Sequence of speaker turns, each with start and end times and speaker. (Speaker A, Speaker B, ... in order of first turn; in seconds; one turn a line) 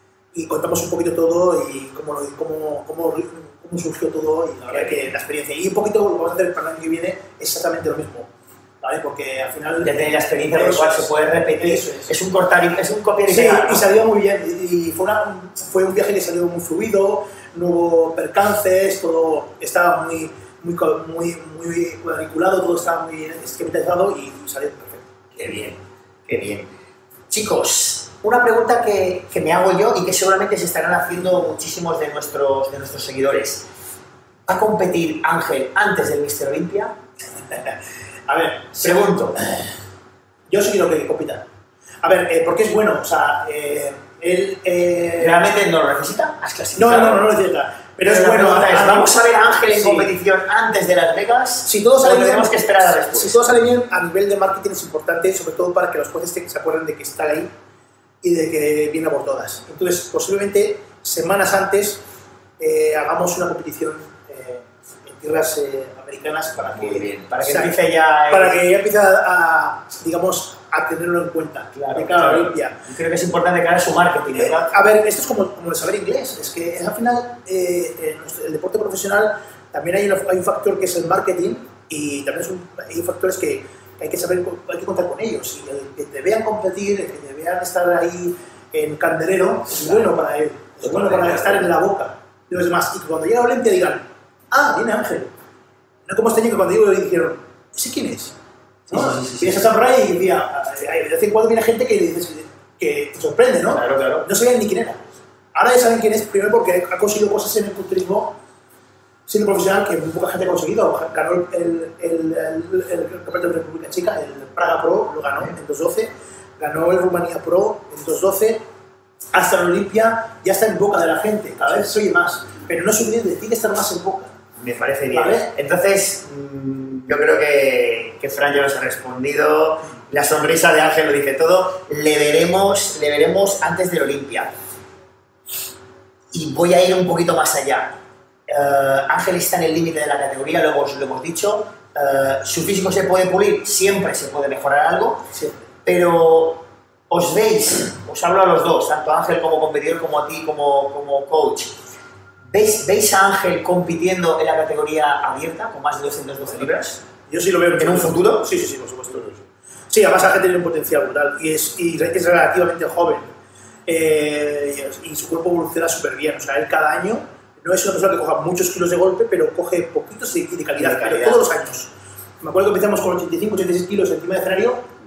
Speaker A: 0.3-8.3
Speaker B: 4.7-5.1
Speaker A: 8.8-12.1
Speaker B: 9.8-13.8
Speaker A: 13.3-25.1
Speaker B: 25.4-25.8
Speaker B: 26.3-26.7
Speaker B: 27.3-33.6
Speaker B: 34.5-36.9
Speaker A: 37.5-39.6
Speaker B: 38.8-39.4
Speaker A: 40.5-41.4
Speaker A: 42.0-45.5
Speaker B: 45.2-47.3
Speaker A: 46.8-49.1
Speaker B: 48.0-53.4
Speaker A: 49.7-50.1
Speaker A: 51.6-57.5
Speaker A: 58.2-62.0
Speaker A: 62.6-67.8
Speaker B: 66.7-68.6
Speaker A: 68.3-72.8
Speaker B: 71.7-74.7
Speaker A: 74.3-95.3
Speaker B: 89.7-90.0
Speaker B: 90.8-91.7
Speaker A: 96.0-98.3
Speaker A: 98.9-105.0
Speaker B: 98.9-99.6
Speaker B: 103.7-104.2
Speaker A: 105.5-108.3
Speaker A: 109.3-118.6
Speaker A: 119.3-124.3
Speaker B: 124.6-134.5
Speaker A: 125.1-125.5
Speaker B: 136.3-137.9
Speaker B: 138.5-145.2
Speaker A: 145.3-145.7
Speaker B: 145.8-151.7
Speaker B: 152.5-157.0
Speaker A: 157.3-163.3
Speaker B: 157.8-158.4
Speaker A: 163.9-171.9
Speaker B: 170.8-171.5
Speaker A: 172.4-174.8